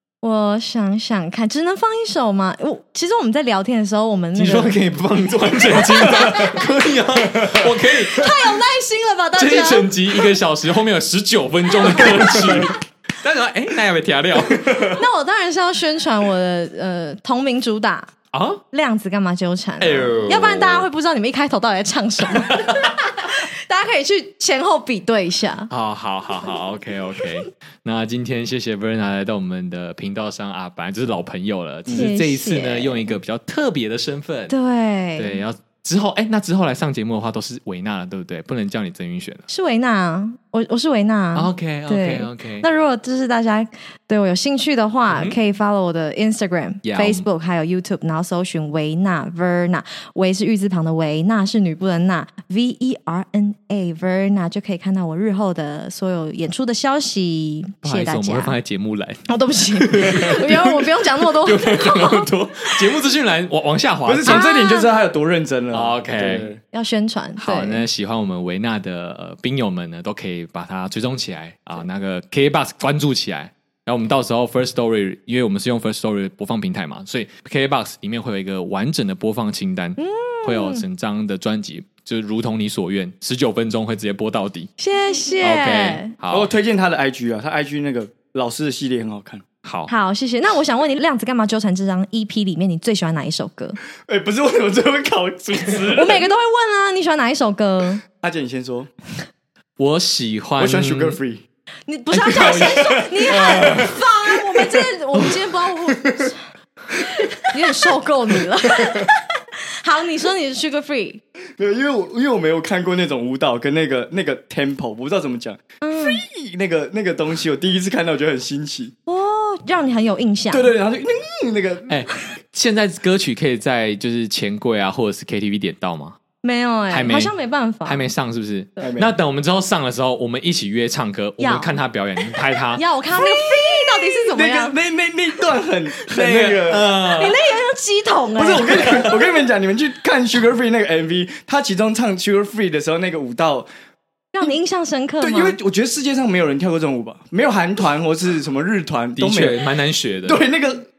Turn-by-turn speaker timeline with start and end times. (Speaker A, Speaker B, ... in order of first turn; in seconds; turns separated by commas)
Speaker A: 0.2-4.8, Speaker B: 4.3-8.5, Speaker C: 7.3-7.6, Speaker A: 8.1-9.9, Speaker B: 9.3-15.0, Speaker A: 14.9-18.1, Speaker B: 18.3-18.6, Speaker A: 18.7-25.7, Speaker B: 19.8-20.9, Speaker B: 25.7-34.5, Speaker A: 31.9-33.1, Speaker A: 34.5-35.4, Speaker B: 35.2-39.5, Speaker A: 39.5-58.5, Speaker B: 41.3-42.7, Speaker B: 45.1-45.4, Speaker B: 46.8-47.2, Speaker B: 57.8-59.2, Speaker A: 59.3-62.3, Speaker B: 59.8-64.4, Speaker C: 64.0-66.6, Speaker A: 64.2-64.9, Speaker B: 65.7-66.5, Speaker A: 66.7-67.8, Speaker B: 67.4-84.7, Speaker A: 80.0-80.8, Speaker A: 84.8-86.1, Speaker B: 85.4-86.5, Speaker C: 86.3-89.4, Speaker B: 89.6-89.9, Speaker A: 89.9-93.8, Speaker C: 94.0-96.3, Speaker A: 95.9-98.0, Speaker C: 98.2-98.9, Speaker B: 99.8-101.2, Speaker C: 100.6-101.4, Speaker A: 101.9-106.4, Speaker B: 102.1-104.0, Speaker C: 102.2-104.8, Speaker B: 105.1-105.4, Speaker C: 106.0-106.3, Speaker A: 107.5-111.2, Speaker C: 108.8-109.1, Speaker C: 111.6-118.9, Speaker A: 115.8-116.2, Speaker A: 119.0-120.7, Speaker C: 120.5-121.9, Speaker B: 121.9-126.2, Speaker A: 126.4-128.1, Speaker B: 126.9-127.3, Speaker B: 127.8-132.8, Speaker C: 128.8-129.1, Speaker A: 131.4-131.8, Speaker A: 132.7-134.8, Speaker C: 134.0-136.9, Speaker B: 136.1-137.4, Speaker A: 137.1-139.1, Speaker C: 138.4-143.7, Speaker B: 138.7-139.1, Speaker A: 144.3-145.6, Speaker C: 145.2-149.6, Speaker B: 149.2-150.4, Speaker C: 150.2-150.8